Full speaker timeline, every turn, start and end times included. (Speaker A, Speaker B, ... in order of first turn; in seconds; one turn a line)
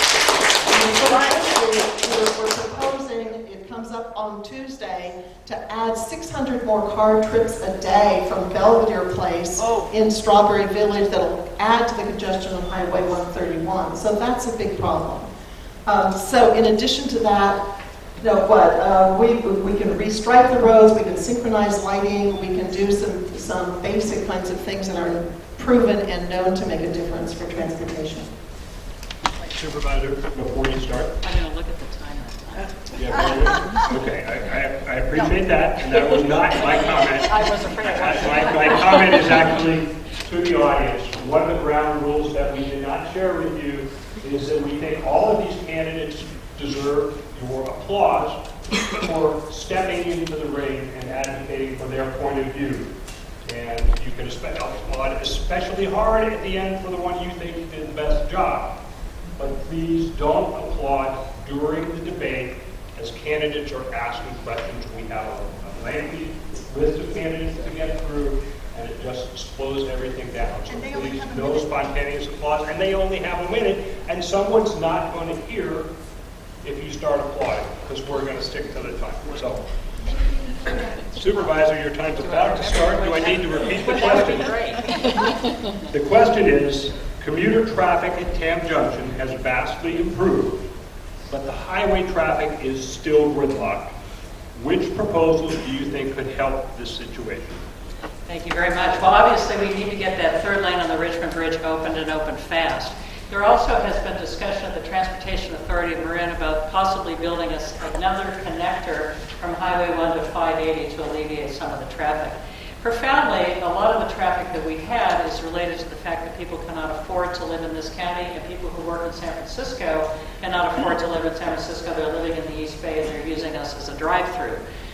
Speaker A: 0.6-15.3
Speaker A: 15.9-17.6
Speaker A: 18.2-28.3
Speaker B: 29.5-31.1
Speaker C: 31.2-32.8
Speaker B: 33.0-48.4
Speaker B: 48.9-52.9
Speaker B: 53.4-58.7
Speaker B: 59.4-75.9
Speaker B: 76.6-79.6
Speaker B: 81.1-84.6
Speaker C: 82.2-84.5
Speaker B: 85.9-90.7
Speaker B: 91.3-93.9
Speaker B: 94.5-97.6
Speaker C: 98.3-124.6